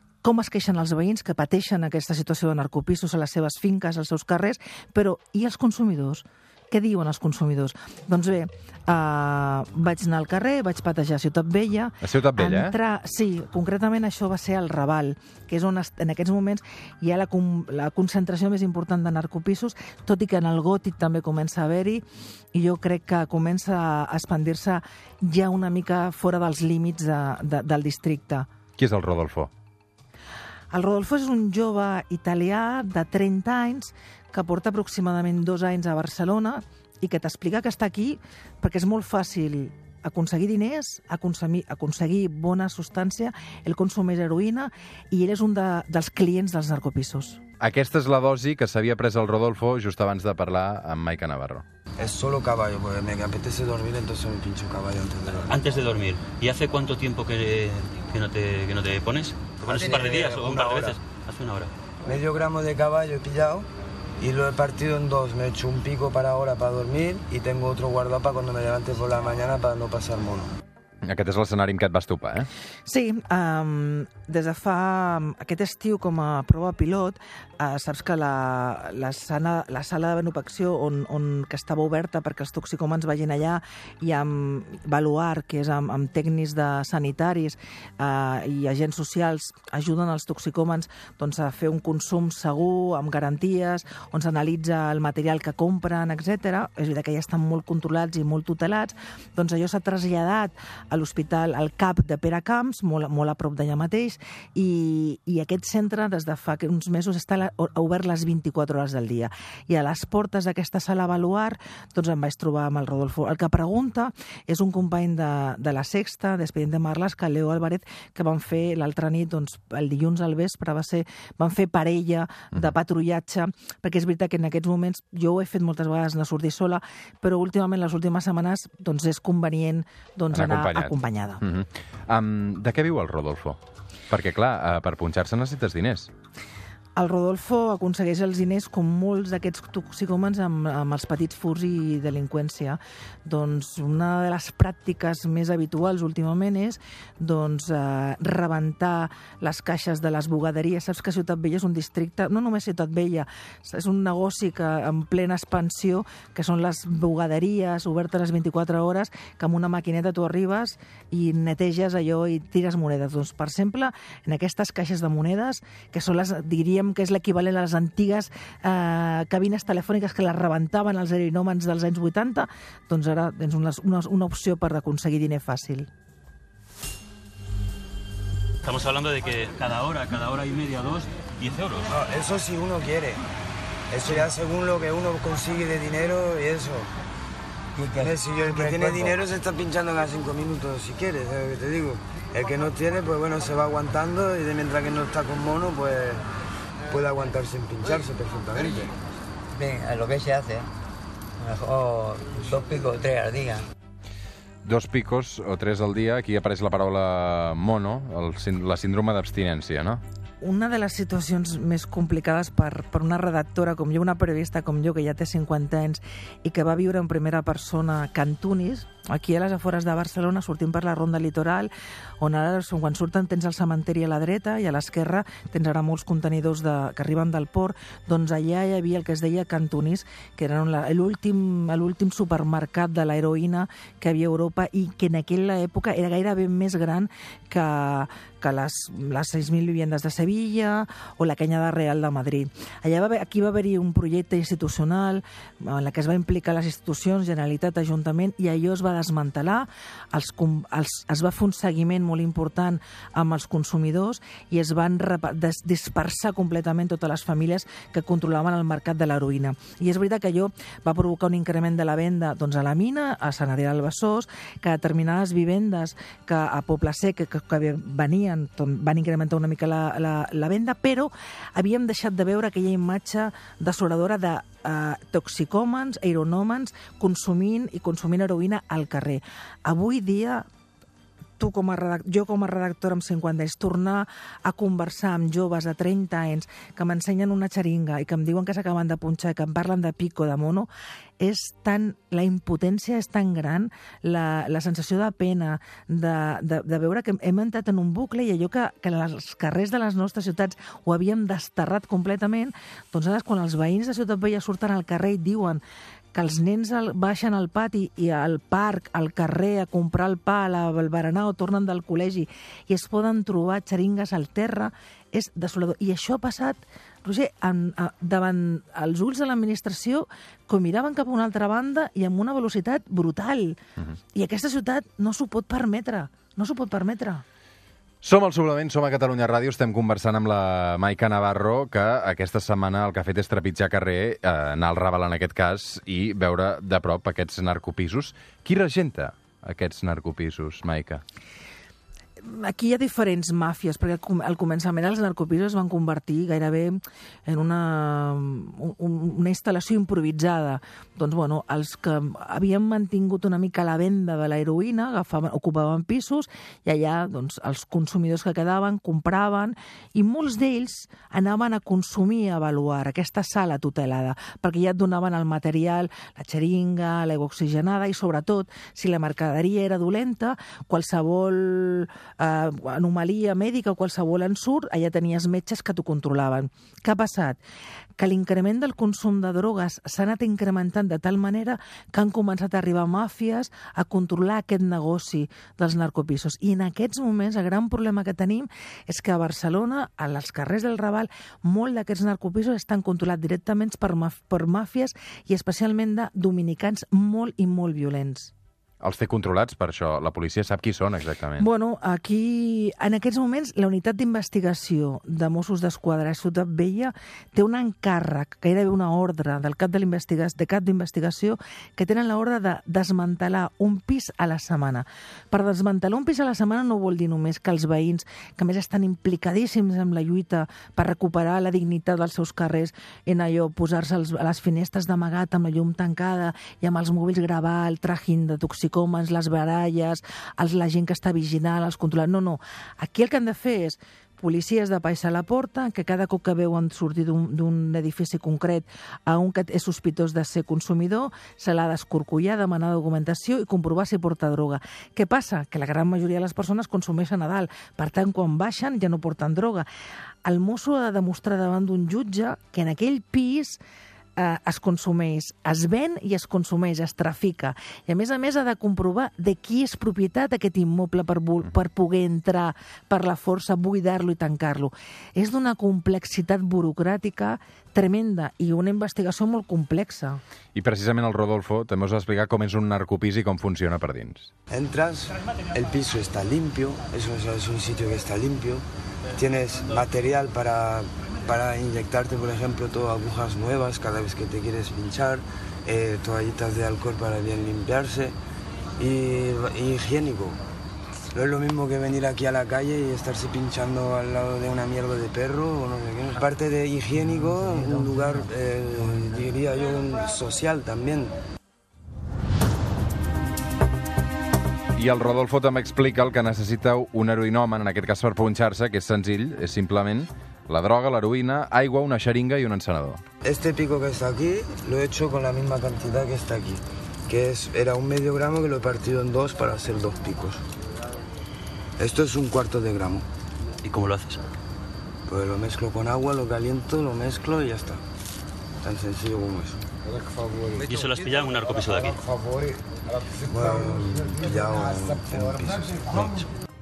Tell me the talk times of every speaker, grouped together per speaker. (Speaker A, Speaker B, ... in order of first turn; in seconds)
Speaker A: 0.2-28.5, 30.7-47.4, 72.9-131.4, 137.0-175.9, 210.4-280.5, 281.4-290.7, 291.2-305.6, 306.1-323.6, 324.1-327.2, 342.2-377.4, 378.0-398.3, 401.4-449.7, 450.2-453.6, 454.2-470.2
Speaker B: 12.0-12.8, 28.8-29.5, 47.6-51.6, 71.0-72.5, 130.3-136.1, 204.7-210.0, 328.0-341.0, 398.8-401.5, 470.6-474.3, 504.8-513.0
Speaker C: 52.0-55.6, 59.8-61.0, 62.0-63.7, 64.2-70.5, 181.9-183.2, 183.9-186.9, 188.0-196.2, 196.9-198.9, 474.5-478.6, 479.2-488.2, 488.8-490.4, 491.1-501.1, 513.2-520.4, 521.8-523.1, 525.1-527.8, 528.6-529.6, 533.3-536.3
Speaker D: 55.5-61.7, 178.6-181.9, 523.6-524.2, 530.6-532.0
Speaker E: 187.8-189.2, 199.5-200.7, 201.4-203.6